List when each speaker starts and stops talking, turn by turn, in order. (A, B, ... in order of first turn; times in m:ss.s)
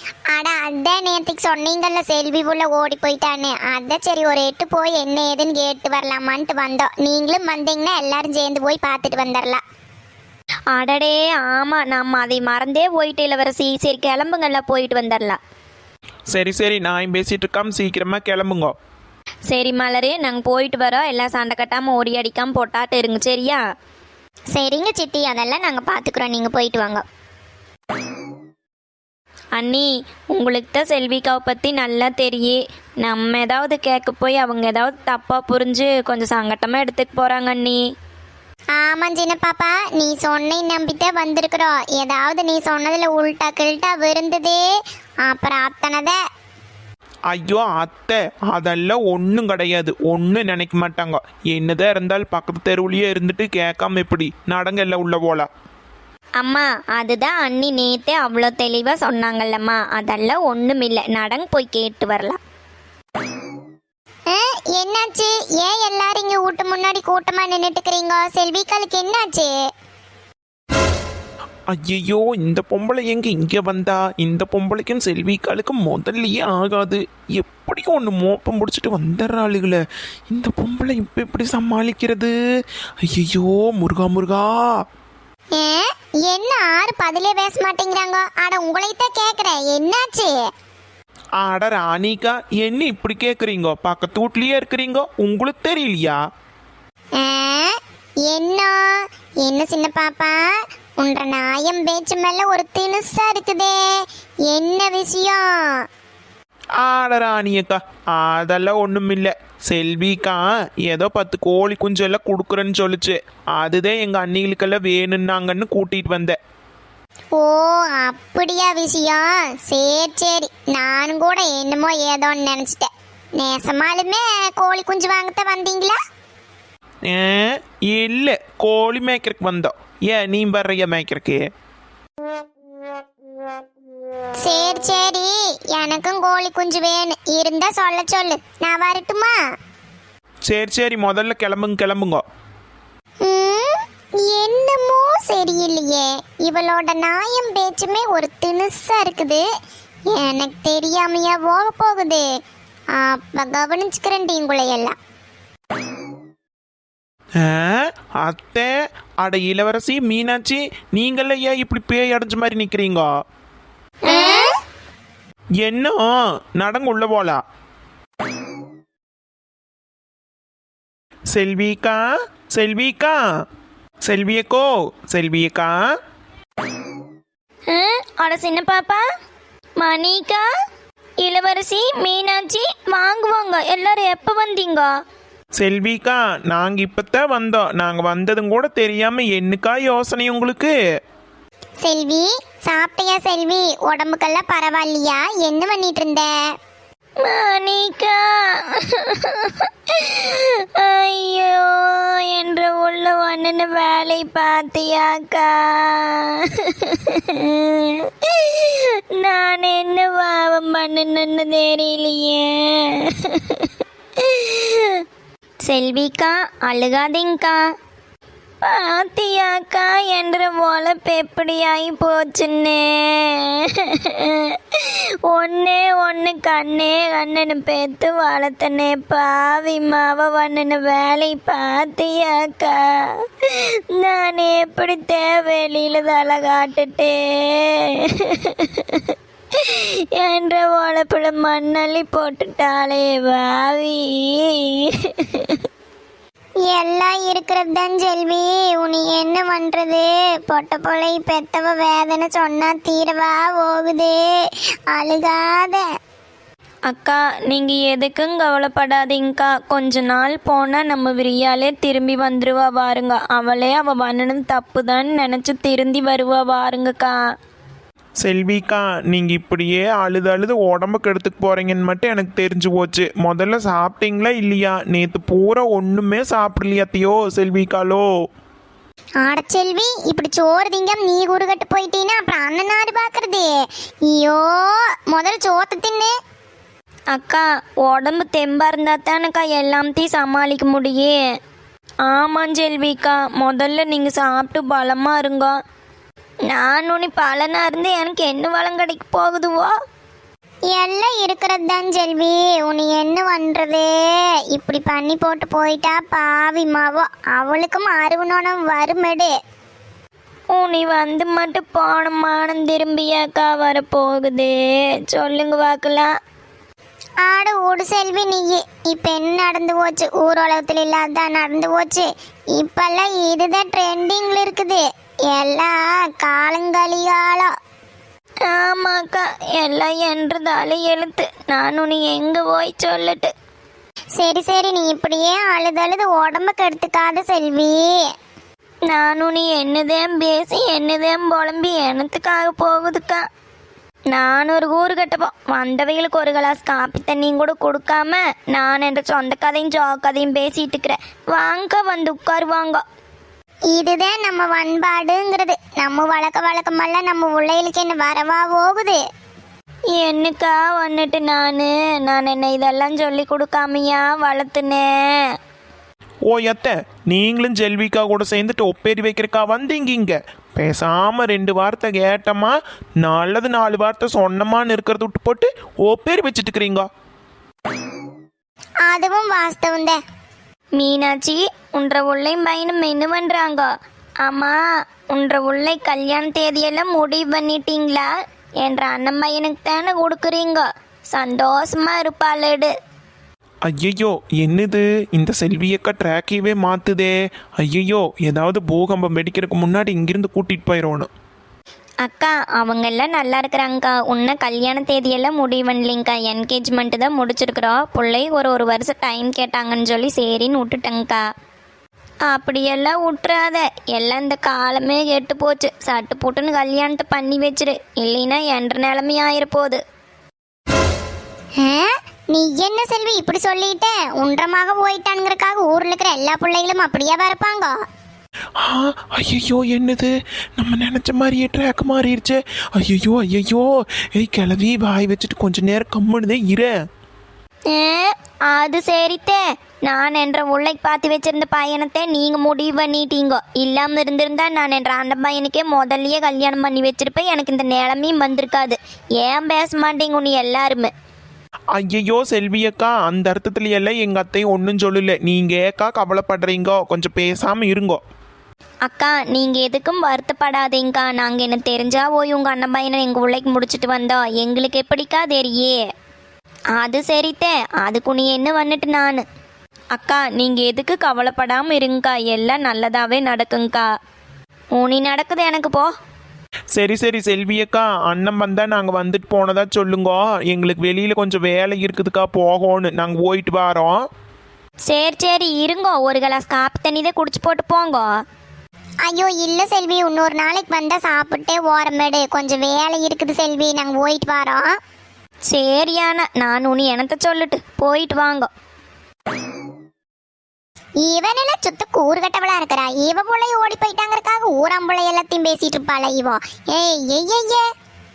0:00.3-0:09.6 A
0:10.7-0:15.4 B
0:16.3-0:18.7 C
0:19.5-0:23.6 B
0:24.5-0:27.0 B
0:29.5-0:37.8 B
0:38.8-0:44.6 A
0:45.2-0:46.2 A
0:47.3-0:55.5 C
0:56.4-1:02.4 B
1:04.3-1:09.5 A
1:11.7-1:22.3 C
1:23.1-1:24.7 C
1:25.5-1:30.3 A
1:31.4-1:36.2 C
1:37.2-1:37.8 A
1:38.3-1:43.8 A
1:44.5-1:45.4 A
1:46.8-1:56.4 C
1:57.3-2:06.0 A
2:07.1-2:11.4 C
2:14.4-2:19.4 A
2:20.4-2:22.2 C
2:23.2-2:29.4 A
2:30.1-2:32.2 A
2:33.0-2:34.9 A
2:37.4-2:38.7 C
2:39.2-2:43.1 C
2:44.1-2:44.5 A
2:44.1-2:44.5 B
2:45.6-2:47.4 C
2:51.3-2:53.2 C
2:54.0-2:55.7 C
2:57.7-2:59.0 B
2:59.8-3:00.4 B
3:01.2-3:04.9 B
3:05.6-3:10.7 C
3:11.8-3:16.3 A
3:17.2-3:18.2 B
3:18.7-3:33.7 B
3:34.2-3:35.0 B
3:35.6-3:37.6 B
3:38.6-3:52.9 B
3:53.4-3:59.0 B
3:59.5-4:05.6 B
4:06.6-4:14.2 A
4:14.9-4:15.8 A
4:16.9-4:27.2 B
4:28.2-4:38.1 C
4:39.2-4:43.5 A
4:44.1-4:46.1 A
4:47.1-4:51.2 B
4:52.0-4:55.6 B
4:56.5-4:59.7 B
5:00.7-5:03.9 A
5:04.5-5:09.3 A
5:10.5-5:14.5 B
5:15.0-5:16.1 B
5:17.2-5:27.5 A
5:28.5-5:33.3 B
5:34.2-5:37.9 A
5:38.9-5:43.2 B
5:44.1-5:52.8 B
5:53.7-5:59.0 A
5:59.9-6:04.9 B
6:06.3-6:16.9 C
6:18.8-6:20.0 A
6:20.8-6:23.7 B
6:24.2-6:24.6 B
6:25.1-6:28.1 B
6:28.6-6:32.7 B
6:33.6-6:41.1 C
6:42.0-6:51.2 B
6:52.3-6:59.8 B
7:01.6-7:07.7 A
7:08.6-7:16.7 C
7:17.7-7:30.9 B
7:31.8-7:38.0 C
7:38.8-7:45.8 B
7:46.8-7:49.2 B
7:49.9-7:53.9 B
7:54.8-7:55.9 B
7:56.7-8:04.0 C
8:04.8-8:08.1 B
8:09.0-8:14.8 A
8:15.5-8:18.5 B
8:21.0-8:27.6 A